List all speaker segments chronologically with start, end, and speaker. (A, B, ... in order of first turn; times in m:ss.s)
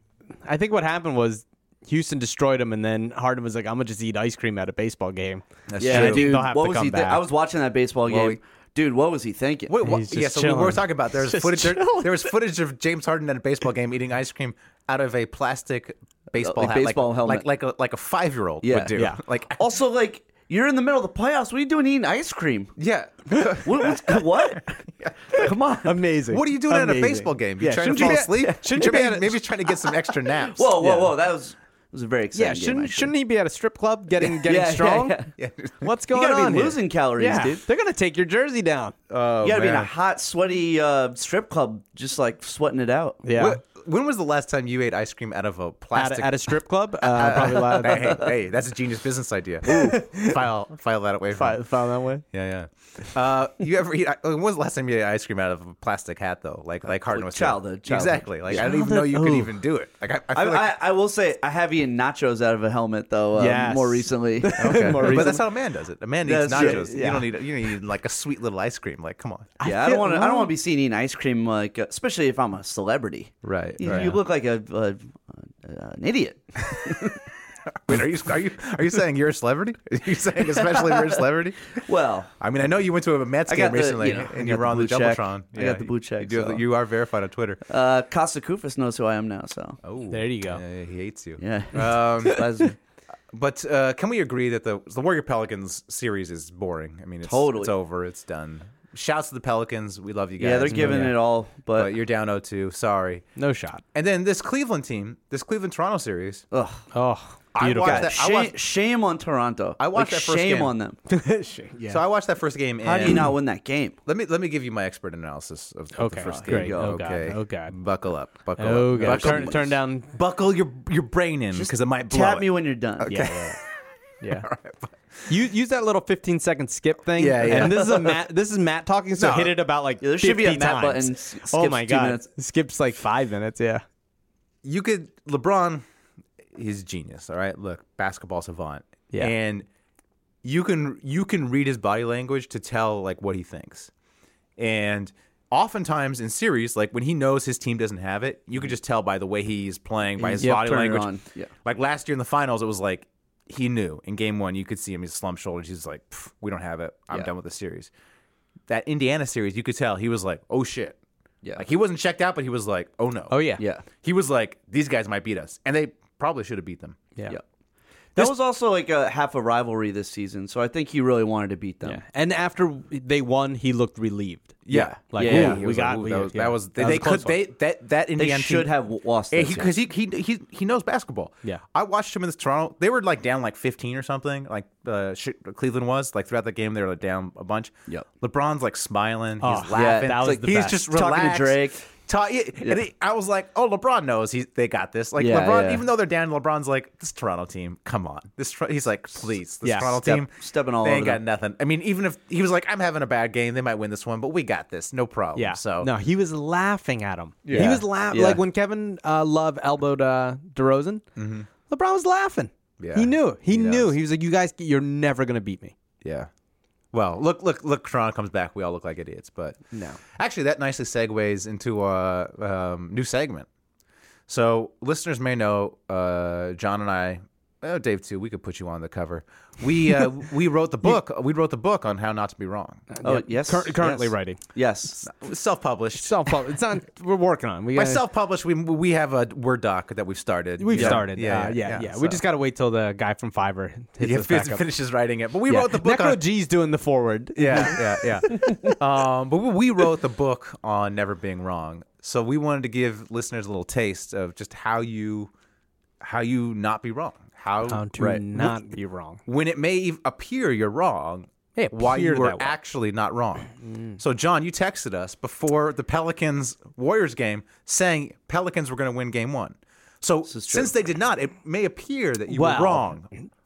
0:00.4-0:07.2 A
0:05.7-0:06.3 B
0:05.8-0:09.7 C
0:08.1-0:08.4 B
0:09.7-0:19.6 B
0:09.8-0:12.3 A
0:16.4-0:17.4 C
0:18.6-0:18.9 C
0:18.8-0:19.2 A
0:19.6-0:22.7 C
0:22.8-0:25.5 B
0:23.6-0:24.8 C
0:25.3-0:25.9 C
0:25.8-0:29.4 A
0:26.3-0:30.9 B
0:27.9-0:29.0 C
0:30.3-0:33.1 C
0:30.8-0:31.1 A
0:32.3-0:35.3 A
0:34.2-0:35.3 C
0:35.4-0:35.9 B
0:35.8-0:38.9 A
0:36.1-0:37.6 C
0:39.1-0:39.9 B
0:39.4-0:43.2 C
0:43.2-0:43.6 A
0:43.4-0:46.5 B
0:45.9-0:48.2 A
0:47.0-0:51.6 B
0:49.7-0:50.4 A
0:51.3-0:52.2 A
0:52.3-1:00.7 B
0:57.1-0:58.7 C
0:58.5-0:59.5 A
1:00.3-1:05.4 C
1:03.4-1:05.4 A
1:04.6-1:09.6 B
1:06.2-1:07.0 C
1:06.5-1:07.3 A
1:09.6-1:10.5 A
1:09.6-1:17.2 C
1:13.4-1:14.2 B
1:13.8-1:14.2 A
1:16.7-1:17.1 B
1:17.7-1:21.8 B
1:20.5-1:21.2 C
1:21.8-1:22.3 C
1:22.4-1:27.6 B
1:23.5-1:26.6 C
1:27.7-1:29.8 C
1:29.8-1:32.6 B
1:30.1-1:30.6 A
1:31.4-1:32.8 C
1:33.3-1:41.1 B
1:37.2-1:37.7 C
1:40.4-1:41.9 C
1:40.7-1:41.2 A
1:41.7-1:43.2 B
1:43.4-1:43.8 A
1:43.9-1:46.4 B
1:46.5-1:46.8 C
1:46.9-1:48.2 A
1:47.5-1:48.6 B
1:47.8-1:51.0 C
1:49.8-1:50.7 B
1:51.1-1:52.0 A
1:51.9-1:53.3 B
1:52.8-1:54.0 C
1:54.0-2:02.4 B
1:55.9-1:57.8 A
1:56.2-1:56.9 C
1:58.6-2:00.1 A
1:59.0-1:59.7 C
2:01.5-2:03.3 C
2:03.0-2:03.5 B
2:03.1-2:03.6 A
2:04.2-2:04.5 A
2:04.4-2:04.7 B
2:05.2-2:13.8 A
2:07.2-2:08.1 B
2:07.3-2:08.2 C
2:09.2-2:09.5 B
2:10.0-2:12.3 C
2:14.6-2:15.8 B
2:16.5-2:19.7 B
2:20.4-2:23.9 B
2:24.6-2:31.1 B
2:30.2-2:31.5 C
2:30.4-2:30.9 A
2:31.6-2:37.9 B
2:38.7-2:41.0 B
2:41.6-2:43.4 B
2:43.3-2:43.6 A
2:43.6-2:43.8 C
2:44.0-2:47.0 B
2:48.2-2:52.0 C
2:51.8-2:57.4 A
2:54.6-2:58.7 B
2:54.7-2:55.6 C
2:58.2-2:59.7 C
2:59.3-3:25.9 B
3:09.4-3:10.9 A
3:09.7-3:11.8 C
3:15.2-3:15.8 C
3:19.6-3:20.1 A
3:20.0-3:21.2 C
3:25.3-3:31.0 A
3:27.4-3:27.8 B
3:27.5-3:28.4 C
3:31.2-3:31.5 B
3:31.7-3:35.7 A
3:32.8-3:33.9 B
3:36.0-3:36.3 B
3:36.9-3:39.6 B
3:39.7-3:40.0 A
3:40.1-3:43.5 B
3:44.3-3:52.8 B
3:52.9-3:54.4 A
3:53.0-3:55.0 C
3:55.0-3:56.2 B
3:55.9-3:58.0 A
3:57.7-4:02.2 B
4:00.6-4:04.6 A
4:00.7-4:01.0 C
4:04.0-4:06.2 B
4:05.5-4:08.2 A
4:07.3-4:15.3 B
4:16.0-4:18.6 B
4:17.7-4:19.2 A
4:19.2-4:33.1 B
4:21.6-4:22.5 A
4:23.6-4:24.0 A
4:30.3-4:30.7 C
4:32.3-4:33.0 A